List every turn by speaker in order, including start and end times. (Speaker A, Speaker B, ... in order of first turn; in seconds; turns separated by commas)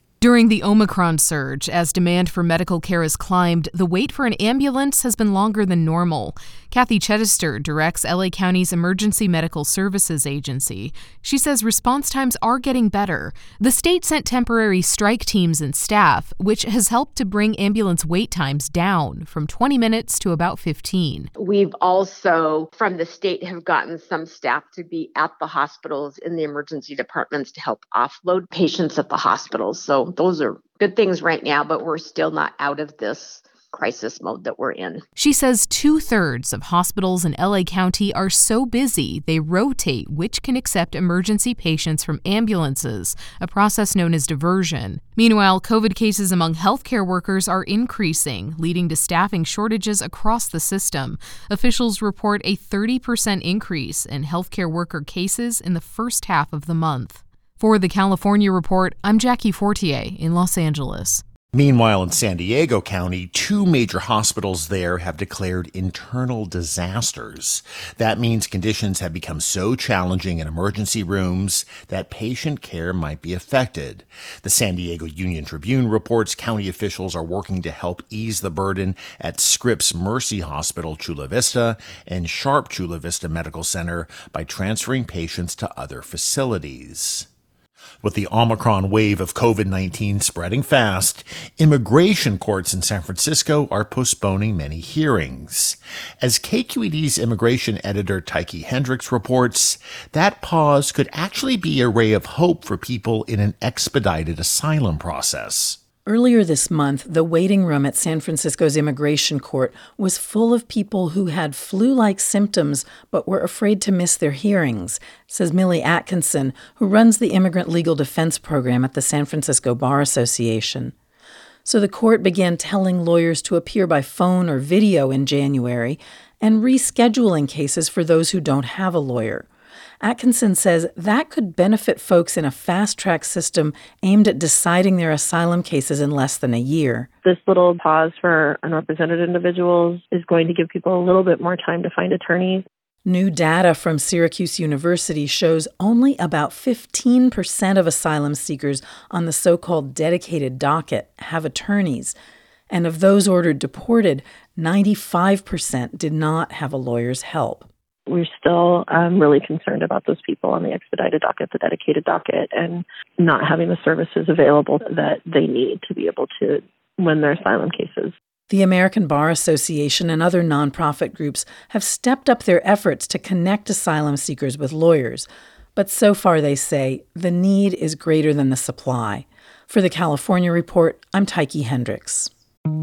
Speaker A: 0.2-21.3, Speaker B: 21.4-35.0, Speaker A: 35.2-61.2, Speaker C: 61.5-87.3, Speaker C: 88.0-105.8, Speaker D: 106.1-120.9, Speaker D: 121.7-129.5, Speaker D: 130.0-137.1, Speaker E: 137.2-142.7, Speaker D: 143.1-152.2, Speaker D: 152.7-157.7, Speaker E: 158.1-168.1, Speaker D: 168.5-182.3